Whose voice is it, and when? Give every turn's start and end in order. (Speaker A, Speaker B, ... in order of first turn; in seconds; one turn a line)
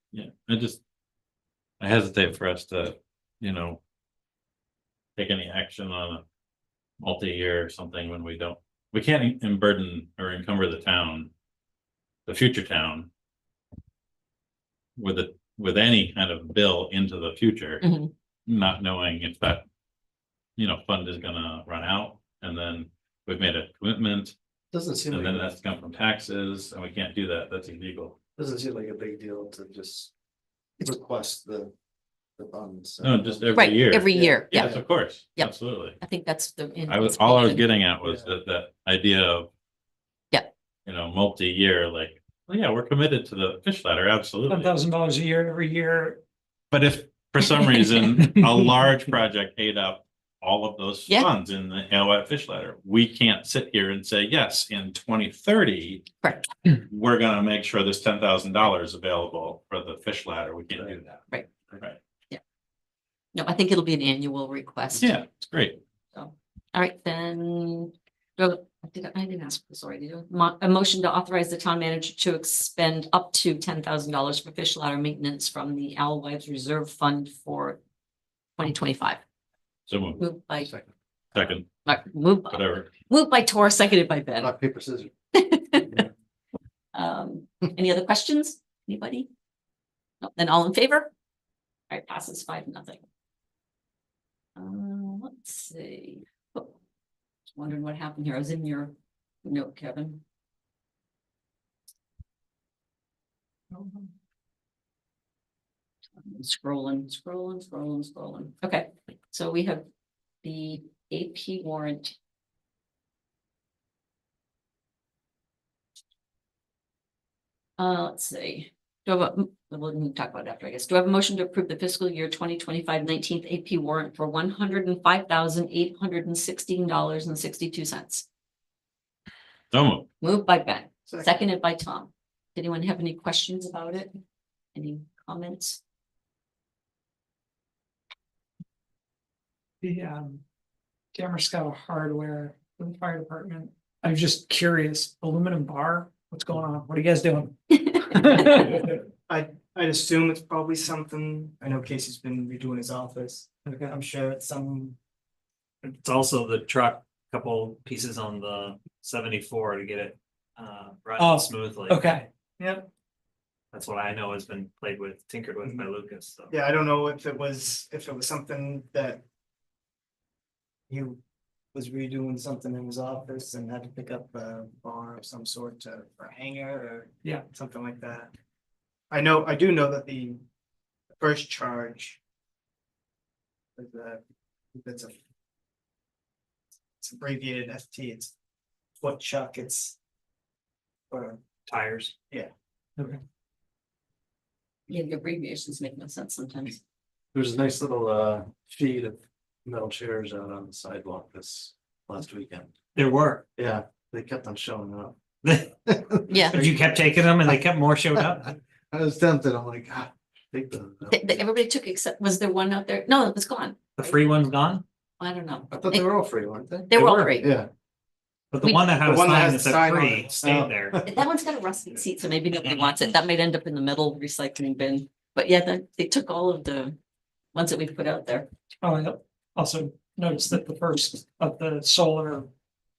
Speaker A: 0.1-0.8
Speaker A: 1.8-3.8
Speaker A: 5.2-6.2
Speaker A: 7.0-11.3
Speaker A: 12.3-13.1
Speaker A: 15.0-17.8
Speaker B: 17.8-18.1
Speaker A: 18.5-19.6
Speaker A: 20.6-24.4
Speaker C: 24.7-25.5
Speaker A: 25.1-28.2
Speaker C: 28.4-30.1
Speaker C: 30.8-31.7
Speaker C: 32.4-34.8
Speaker A: 33.0-36.0
Speaker B: 33.5-34.7
Speaker B: 35.4-37.6
Speaker A: 36.9-39.5
Speaker A: 40.9-44.7
Speaker D: 44.5-46.2
Speaker A: 46.7-56.1
Speaker B: 56.2-56.5
Speaker A: 56.6-61.2
Speaker B: 63.3-65.2
Speaker A: 65.0-65.8
Speaker B: 66.1-77.8
Speaker B: 78.6-79.2
Speaker A: 79.9-80.2
Speaker B: 80.2-80.7
Speaker C: 80.6-80.9
Speaker A: 81.3-81.7
Speaker B: 81.8-84.5
Speaker A: 82.5-82.9
Speaker C: 84.4-85.1
Speaker B: 85.3-86.0
Speaker B: 86.9-89.3
Speaker B: 90.2-91.1
Speaker B: 91.9-93.0
Speaker B: 94.6-96.8
Speaker B: 97.5-100.2
Speaker D: 103.7-104.1
Speaker B: 106.2-109.9
Speaker B: 110.4-112.2
Speaker B: 117.8-128.2
Speaker A: 129.7-130.1
Speaker B: 130.2-134.2
Speaker E: 131.1-131.4
Speaker B: 134.7-135.8
Speaker D: 139.8-140.4
Speaker D: 141.1-148.9
Speaker E: 149.3-154.9
Speaker D: 153.7-153.9
Speaker F: 155.8-162.0
Speaker D: 161.2-162.3
Speaker E: 162.6-162.9
Speaker F: 163.7-166.6
Speaker E: 166.5-169.2
Speaker E: 170.9-171.2
Speaker E: 171.7-178.3
Speaker E: 179.1-180.4
Speaker E: 181.1-182.2
Speaker E: 183.8-184.2
Speaker E: 184.7-185.1
Speaker E: 187.0-188.3
Speaker E: 189.0-189.9
Speaker E: 191.1-191.4
Speaker F: 191.7-192.1
Speaker B: 194.9-196.8
Speaker C: 197.3-202.7
Speaker F: 202.9-203.4
Speaker C: 203.6-205.2
Speaker F: 205.4-205.7
Speaker C: 205.8-207.5
Speaker B: 206.3-206.6
Speaker F: 206.5-208.5
Speaker C: 208.2-211.4
Speaker B: 211.1-214.2
Speaker F: 214.0-214.8
Speaker B: 215.2-216.1
Speaker C: 215.7-217.7
Speaker B: 216.9-217.5
Speaker F: 216.9-217.2
Speaker F: 218.5-221.0
Speaker C: 219.0-221.1
Speaker B: 221.0-226.9
Speaker B: 227.5-228.5
Speaker D: 228.8-232.5